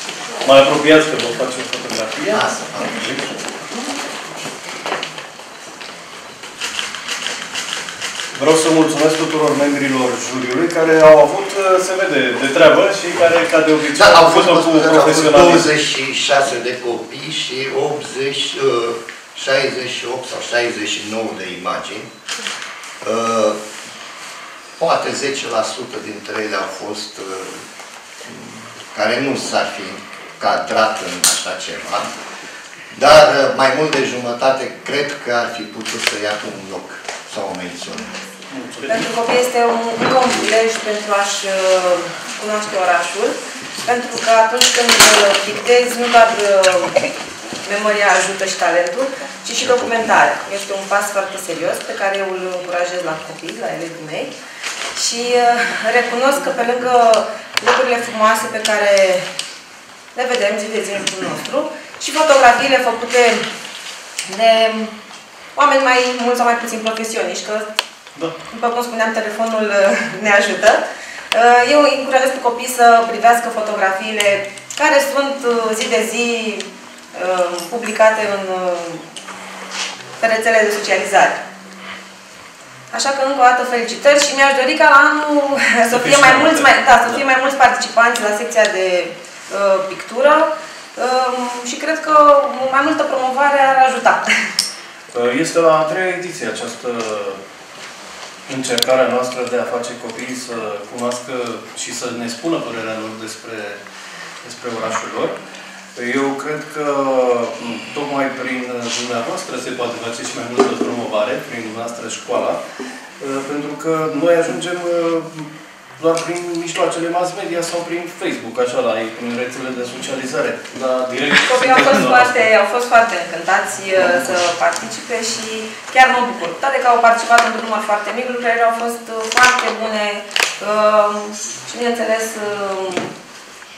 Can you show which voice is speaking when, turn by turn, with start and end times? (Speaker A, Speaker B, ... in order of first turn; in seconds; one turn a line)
Speaker A: 0.4-3.1
Speaker B: 2.3-3.3
Speaker A: 8.3-15.7
Speaker B: 13.9-22.1
Speaker B: 23.0-23.6
Speaker B: 24.8-27.6
Speaker B: 28.2-32.1
Speaker B: 32.9-38.1
Speaker A: 38.5-39.0
Speaker C: 38.9-54.3
Speaker C: 55.0-59.3
Speaker C: 60.1-63.5
Speaker C: 64.3-64.9
Speaker C: 65.5-67.7
Speaker C: 68.5-79.1
Speaker C: 80.2-81.4
Speaker C: 82.9-94.5
Speaker A: 85.9-87.2
Speaker A: 95.1-97.4
Speaker A: 98.5-103.8
Speaker A: 104.4-105.3
Speaker A: 106.0-112.6
Speaker A: 113.2-122.5
Speaker C: 121.4-133.1
Speaker A: 124.0-124.3